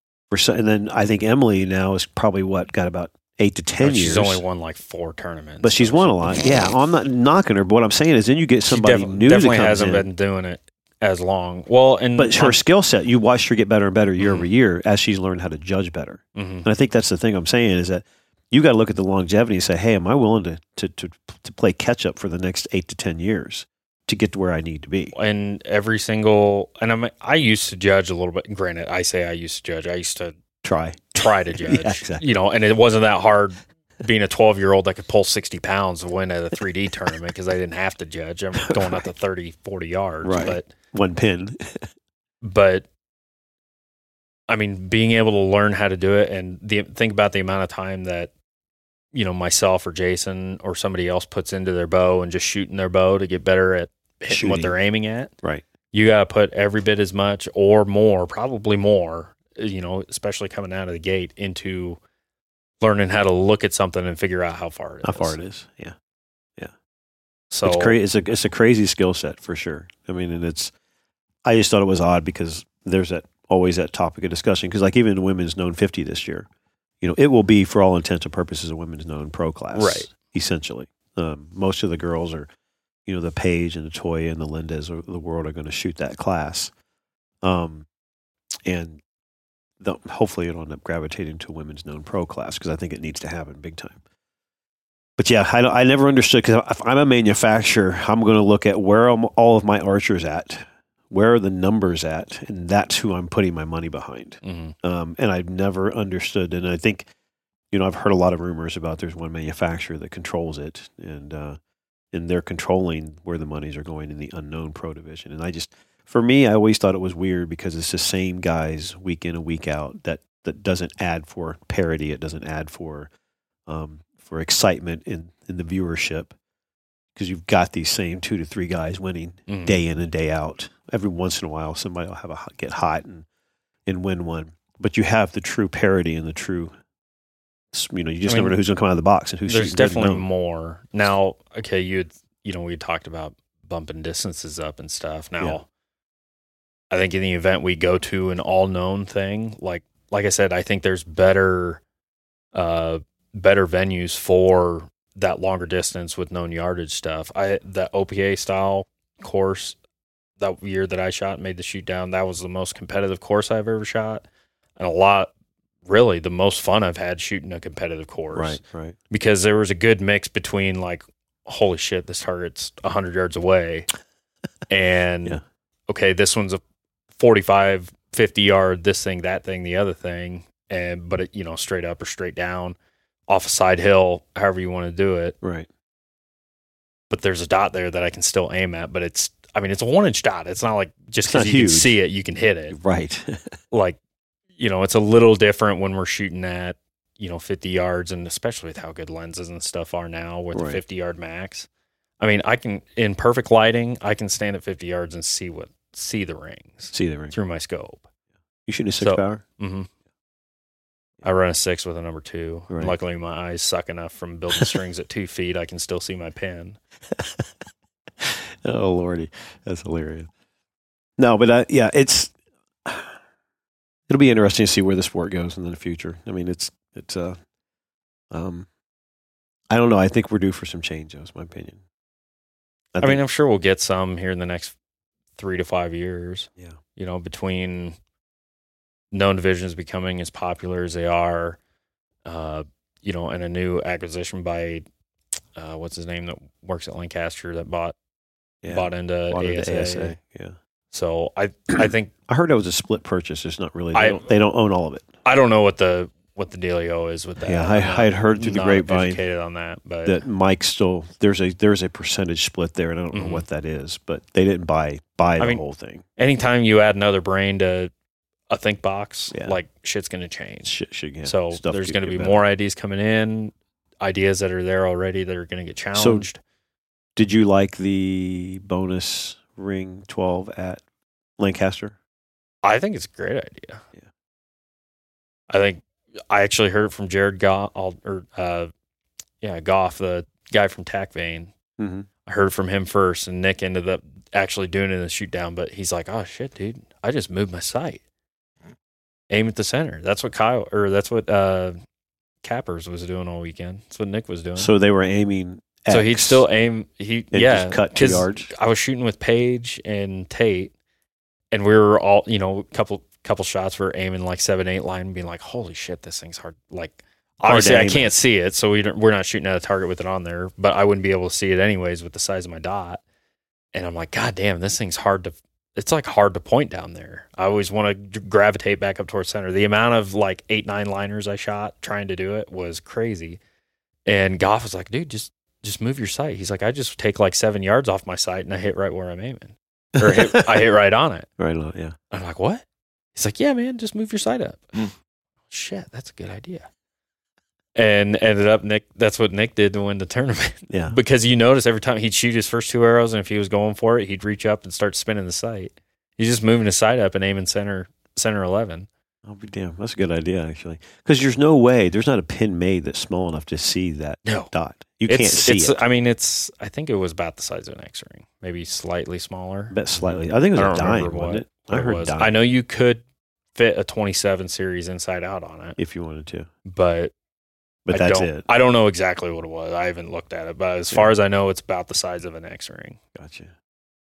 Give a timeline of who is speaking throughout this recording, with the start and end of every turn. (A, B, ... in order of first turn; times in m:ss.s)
0:00.3-0:04.4 A
0:03.8-0:06.4 B
0:05.6-0:10.1 A
0:08.7-0:12.6 B
0:12.1-0:25.1 A
0:14.2-0:14.5 B
0:16.3-0:16.6 B
0:25.1-0:30.4 B
0:30.6-0:32.2 A
0:31.2-0:40.7 B
0:38.7-0:39.0 A
0:40.2-0:41.6 A
0:42.4-0:42.8 B
0:44.5-0:48.3 B
0:49.1-0:55.3 B
0:54.3-0:54.7 A
0:55.9-1:02.0 B
1:02.8-1:05.4 B
1:05.0-1:05.9 A
1:07.5-1:08.0 B
1:07.6-1:10.7 A
1:11.4-1:16.5 A
1:17.0-1:22.5 A
1:19.7-1:20.1 B
1:23.0-1:26.7 A
1:27.4-1:27.8 A
1:28.6-1:29.0 A
1:29.8-1:34.0 A
1:35.2-1:47.1 A
1:44.4-1:44.7 B
1:47.7-1:51.6 A
1:52.1-2:03.1 A
2:03.7-2:06.3 A
2:07.2-2:13.2 A
2:09.5-2:09.8 B
2:13.8-2:16.7 A
2:17.7-2:20.3 A
2:18.3-2:18.6 B
2:19.5-2:25.6 B
2:26.9-2:31.8 B
2:32.5-2:39.8 B
2:40.4-2:44.2 B
2:44.8-2:45.3 B
2:45.8-2:53.9 B
2:48.3-2:49.0 A
2:54.7-2:56.6 B
2:57.2-3:02.8 B
3:03.3-3:05.3 B
3:05.4-3:05.7 A
3:07.1-3:12.8 B
3:11.2-3:12.0 A
3:12.7-3:13.5 A
3:13.7-3:14.0 B
3:14.6-3:21.7 B
3:20.5-3:20.8 A
3:22.2-3:28.0 B
3:26.9-3:27.3 A
3:28.6-3:29.4 A
3:29.0-3:29.9 B
3:31.2-3:36.8 B
3:32.7-3:32.9 A
3:37.1-3:37.5 A
3:38.2-3:40.3 A
3:41.2-3:42.3 A
3:42.8-3:43.1 A
3:44.1-3:47.4 A
3:48.3-3:48.7 A
3:49.7-3:51.8 A
3:52.9-3:53.2 A
3:53.0-3:54.7 B
3:55.3-3:58.0 B
3:59.1-4:01.6 B
4:02.2-4:04.8 B
4:05.6-4:07.9 B
4:08.6-4:10.5 A
4:08.7-4:10.2 B
4:10.9-4:12.1 B
4:12.3-4:15.1 A
4:13.9-4:14.3 B
4:15.2-4:20.2 B
4:17.4-4:19.2 A
4:20.0-4:26.0 A
4:23.1-4:23.4 B
4:26.2-4:27.9 B
4:28.5-4:36.4 B
4:29.3-4:29.6 A
4:30.6-4:32.4 A
4:35.9-4:36.3 A
4:37.2-4:40.8 A
4:41.4-4:42.0 A
4:42.6-4:43.8 B
4:45.5-4:48.7 B
4:49.4-4:51.5 B
4:51.8-4:52.1 A
4:52.2-4:58.0 B
4:59.3-5:01.8 B
5:02.4-5:04.7 B
5:04.6-5:06.4 A
5:05.9-5:10.7 B
5:07.3-5:08.5 A
5:11.5-5:23.0 B
5:17.4-5:18.1 A
5:23.7-5:33.4 B
5:34.0-5:41.3 B
5:40.0-5:40.6 A
5:41.4-5:41.9 A
5:42.1-5:42.6 B
5:43.1-5:44.9 B
5:45.5-5:46.6 B
5:47.8-5:58.9 B
5:50.7-5:51.0 A
5:59.2-6:05.8 A
6:04.2-6:04.5 B
6:05.1-6:13.0 B
6:09.7-6:12.3 A
6:13.5-6:15.8 B
6:15.8-6:16.5 A
6:16.6-6:17.1 B
6:17.8-6:18.5 A
6:17.9-6:23.0 B
6:23.1-6:23.5 A